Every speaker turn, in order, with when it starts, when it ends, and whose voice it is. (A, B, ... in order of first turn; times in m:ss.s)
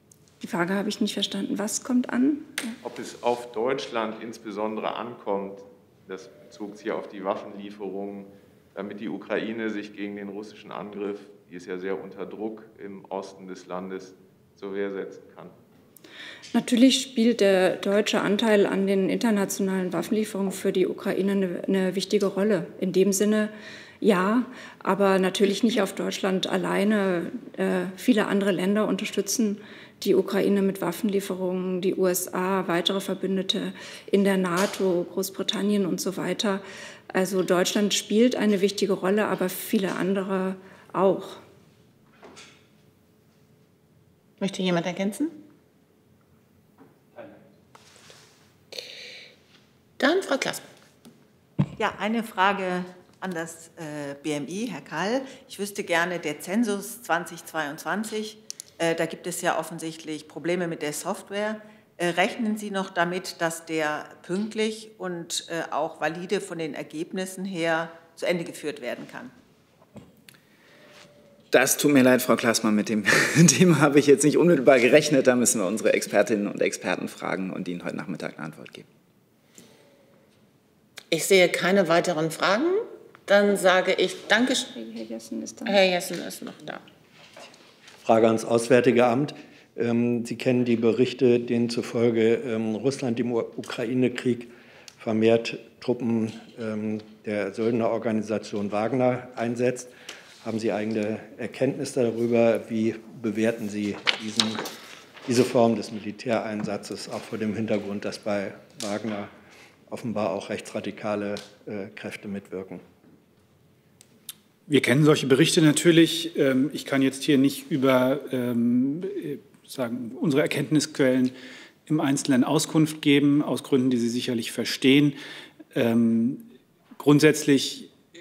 0:00.4-0:02.7 A
0:02.8-0:15.5 B
0:16.5-0:41.4 A
0:44.4-0:45.4 C
0:50.0-0:50.6 C
0:51.8-1:09.3 D
1:11.5-1:18.8 E
1:21.1-1:24.7 C
1:24.7-1:25.8 A
1:25.6-1:26.8 C
1:28.0-1:44.6 F
1:45.2-1:49.3 F
1:49.9-1:52.8 F
1:54.7-2:01.3 G
2:01.9-2:05.2 G
2:05.7-2:06.4 G
2:07.0-2:07.9 G